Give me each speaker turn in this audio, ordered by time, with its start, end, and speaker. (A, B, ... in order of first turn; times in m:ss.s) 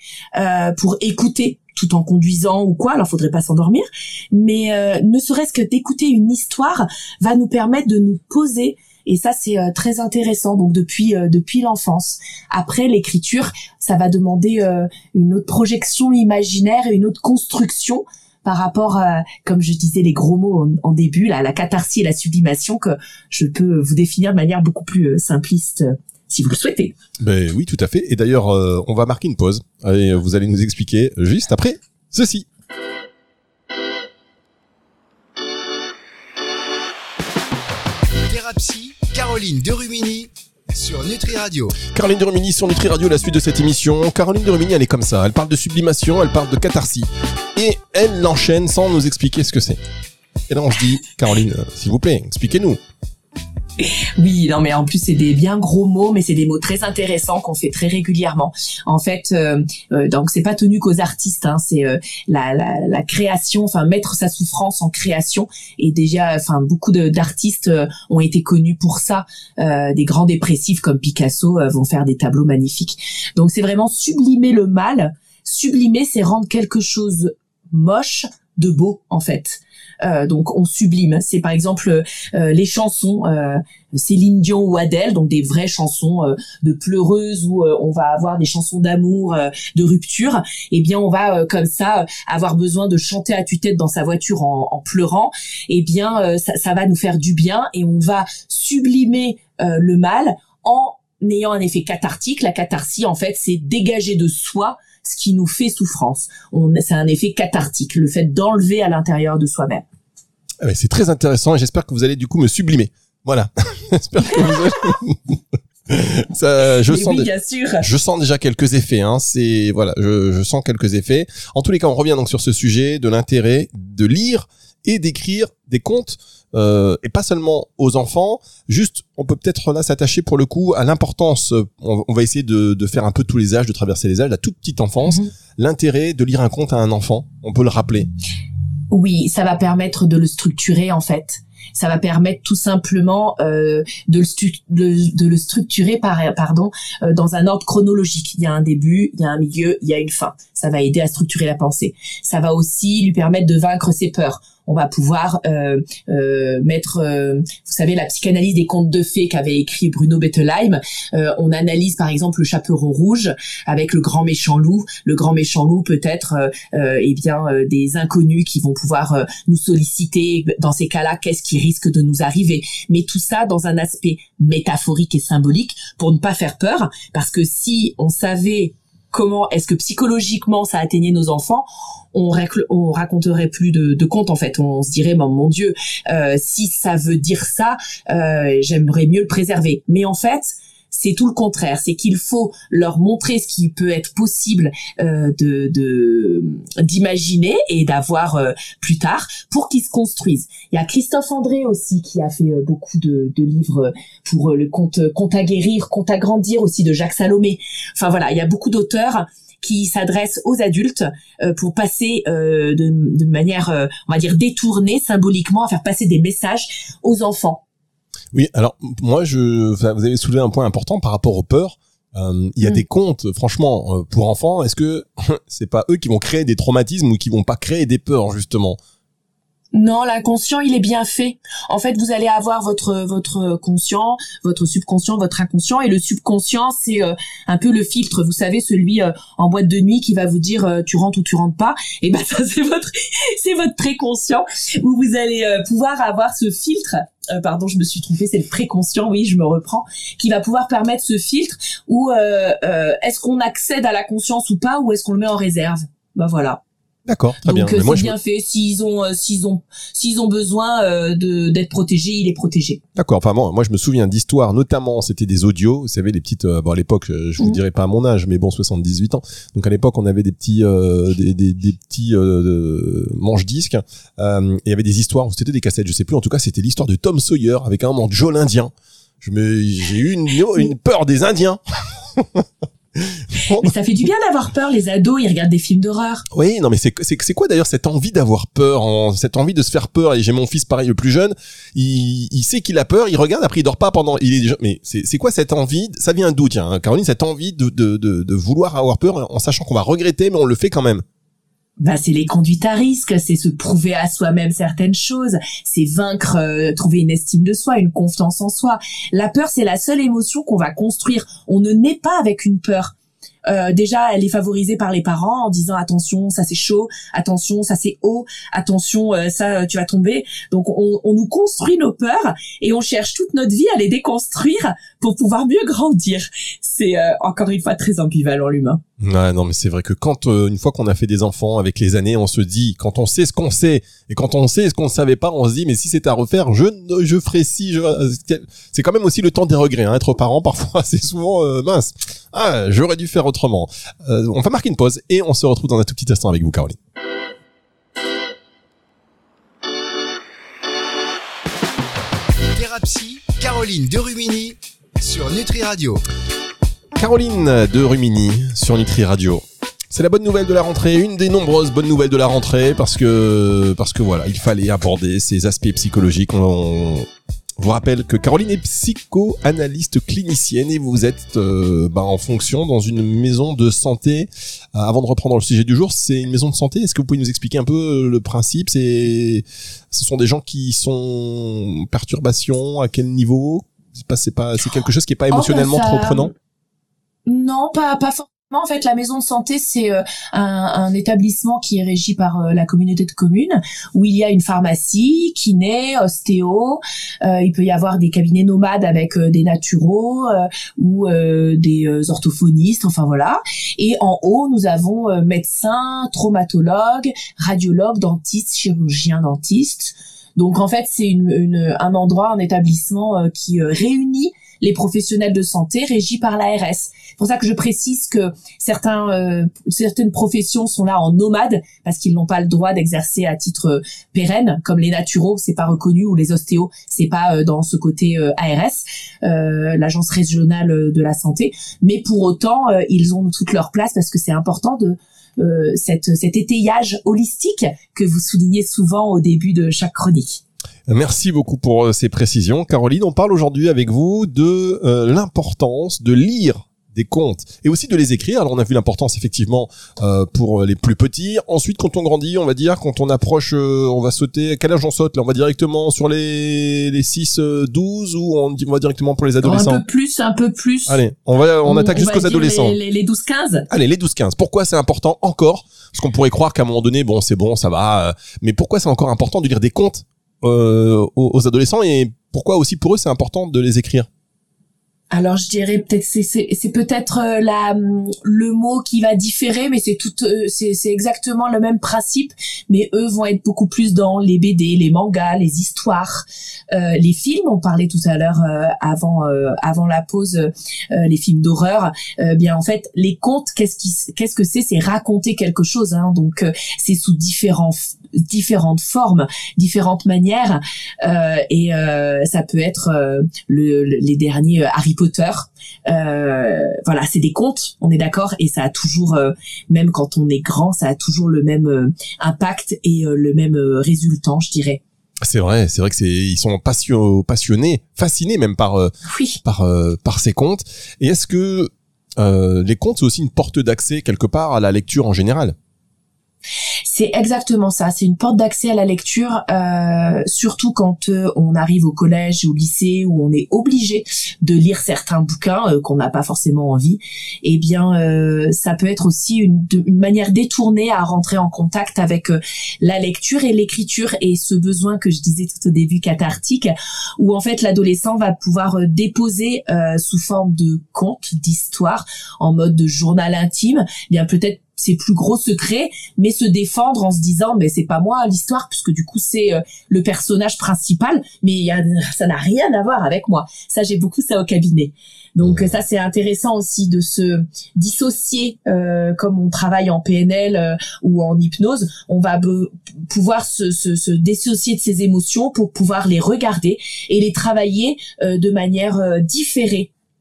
0:00.4-0:26.9 A
0:27.2-0:32.5 B
0:38.3-0:41.8 C
0:41.8-0:49.8 B
0:50.5-0:52.8 B
0:53.8-1:49.8 A
1:50.6-1:57.3 B
1:56.9-1:57.8 A
1:57.8-2:18.1 B
2:18.9-3:37.6 A
3:38.3-3:48.8 B
3:49.7-4:16.6 A
4:17.0-4:18.1 B
4:17.4-4:22.8 A
4:22.9-4:43.7 B
4:43.4-4:46.2 A
4:46.3-5:01.0 B
5:01.8-5:12.9 A
5:13.4-5:28.8 A
5:29.0-5:46.8 B
5:52.5-5:56.0 C
5:57.0-6:07.0 B
6:07.6-6:26.3 B
6:25.3-6:26.3 A
6:27.2-7:20.4 A
7:20.9-7:39.8 B
7:39.4-7:41.0 A
7:40.9-7:42.8 B
7:41.6-7:43.7 A
7:43.7-7:54.1 B
7:55.1-8:34.8 A
8:35.2-8:45.6 B
8:39.0-8:39.4 A
8:46.8-9:39.9 A
9:25.4-9:25.7 B